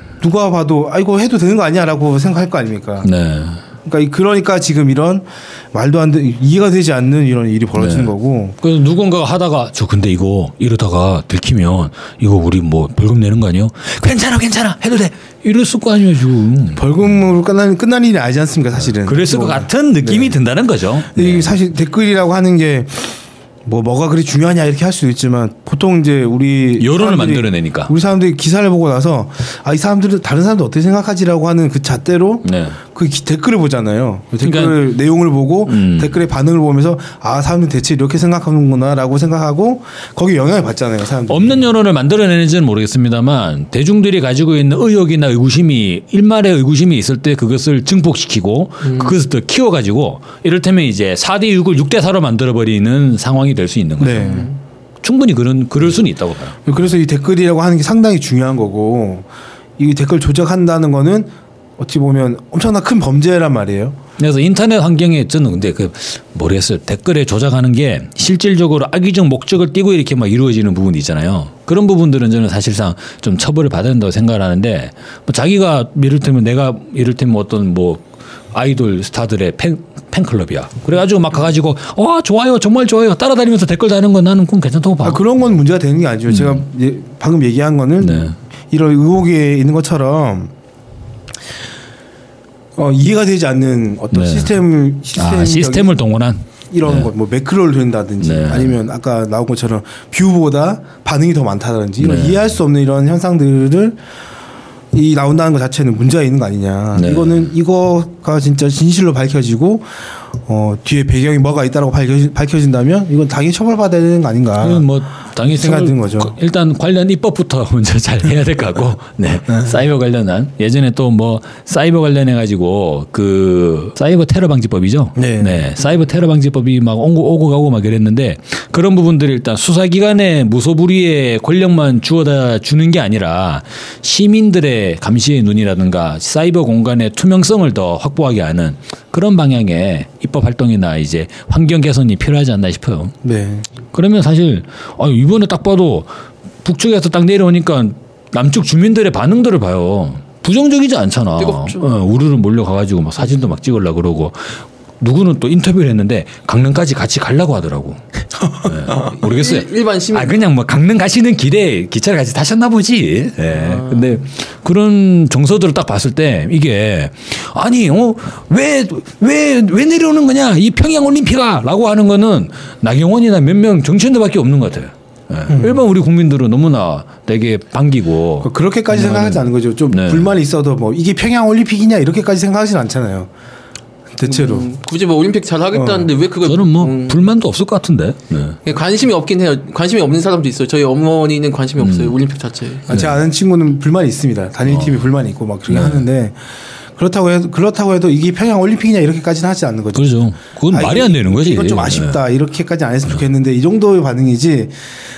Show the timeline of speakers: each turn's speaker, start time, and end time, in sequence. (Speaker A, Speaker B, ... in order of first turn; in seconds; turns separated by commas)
Speaker A: 0.2-3.1, Speaker B: 3.0-3.6, Speaker A: 3.9-8.6, Speaker B: 7.8-17.1, Speaker A: 16.8-20.4, Speaker B: 18.8-21.6, Speaker A: 21.1-41.7, Speaker B: 26.8-27.9, Speaker B: 32.4-32.8, Speaker B: 34.4-34.9, Speaker B: 35.6-36.2, Speaker B: 41.3-54.4, Speaker C: 48.8-49.2, Speaker A: 54.0-54.5, Speaker C: 54.2-54.6, Speaker B: 55.0-56.9, Speaker A: 56.7-59.3, Speaker A: 59.8-64.0, Speaker B: 64.2-85.4, Speaker A: 85.0-90.5, Speaker B: 86.3-86.7, Speaker B: 88.0-88.3, Speaker A: 92.8-96.0, Speaker B: 94.1-94.6, Speaker B: 95.1-97.1, Speaker A: 96.7-104.0, Speaker B: 98.2-98.8, Speaker B: 102.0-102.6, Speaker A: 104.9-114.9, Speaker B: 107.0-107.5, Speaker B: 114.6-143.1, Speaker A: 115.4-116.3, Speaker A: 125.2-125.7, Speaker A: 143.2-143.7, Speaker B: 143.9-146.1, Speaker B: 146.6-180.3, Speaker C: 151.4-151.9, Speaker C: 159.0-160.4, Speaker C: 163.5-164.2, Speaker A: 175.5-175.8, Speaker A: 178.4-183.3, Speaker A: 184.1-184.8, Speaker C: 184.2-187.3, Speaker A: 185.7-186.1, Speaker B: 186.4-188.6, Speaker C: 188.7-192.9, Speaker B: 191.8-192.2, Speaker B: 192.9-193.2, Speaker A: 192.9-196.4, Speaker B: 194.7-195.1, Speaker B: 195.7-196.1, Speaker A: 197.0-200.2, Speaker B: 199.9-202.2, Speaker A: 200.7-204.8